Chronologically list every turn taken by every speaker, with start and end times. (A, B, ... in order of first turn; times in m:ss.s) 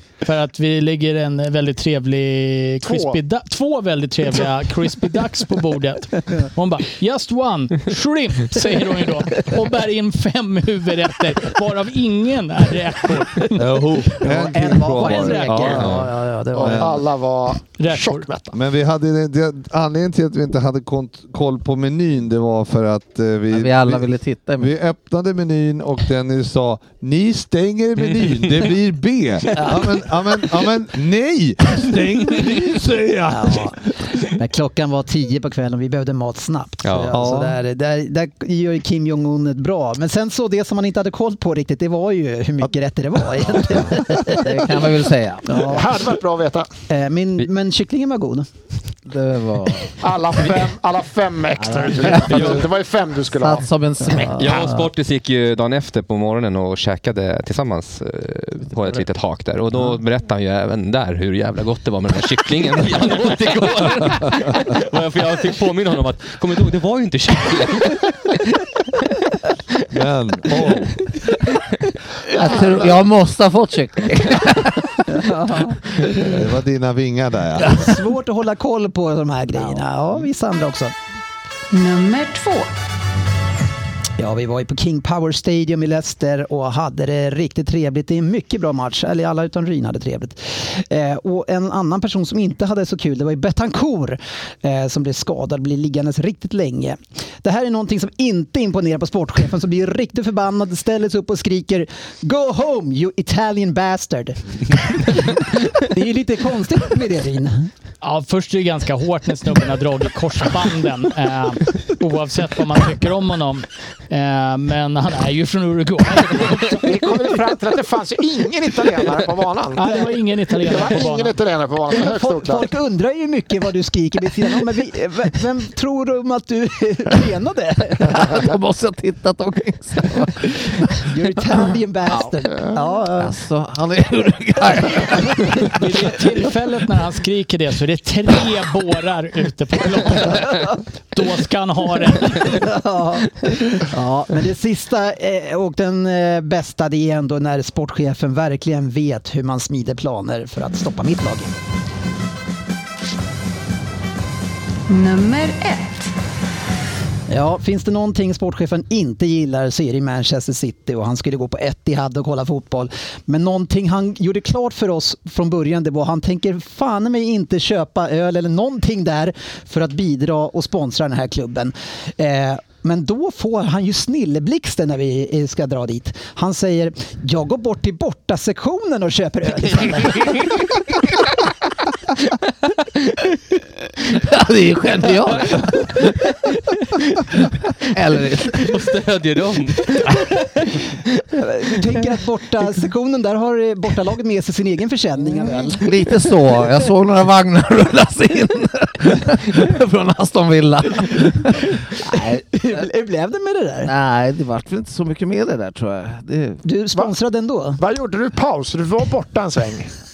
0:00.2-0:13.8 A
0:02.8-0:03.2 B
0:13.5-0:17.0 C
0:14.2-0:16.9 D
0:14.8-0:15.9 A
0:16.6-0:18.5 B
0:17.8-0:18.2 A
0:18.5-0:33.9 C
0:23.5-0:24.7 E
0:33.3-0:44.6 D
0:36.8-0:37.1 F
0:37.1-0:37.6 C
0:43.9-0:45.8 E
0:45.4-0:45.9 D
0:45.6-0:46.7 B
0:46.9-0:48.4 D
0:49.1-0:50.0 E
0:50.0-0:53.7 B
0:51.6-0:52.6 E
0:53.3-0:54.7 E
0:54.4-1:08.4 F
1:09.9-1:11.0 C
1:12.3-1:16.3 E
1:15.1-1:15.8 D
1:16.2-1:17.8 C
1:17.6-1:18.0 E
1:17.7-1:20.9 D
1:21.7-1:22.7 G
1:24.2-1:47.7 D
1:48.0-1:56.8 A
1:56.8-2:02.7 B
1:59.8-2:01.3 A
2:02.0-2:08.4 D
2:08.1-2:11.1 E
2:11.0-2:13.3 D
2:13.2-2:16.0 E
2:15.6-2:22.6 A
2:22.4-2:31.5 D
2:34.9-2:36.1 G
2:37.3-3:00.5 D
3:04.0-3:06.2 E
3:07.8-3:08.7 E
3:08.5-3:10.3 F
3:11.3-3:15.9 D
3:15.5-3:22.4 E
3:22.0-3:23.9 D
3:23.8-3:26.6 E
3:26.6-3:27.8 D
3:27.8-3:29.9 B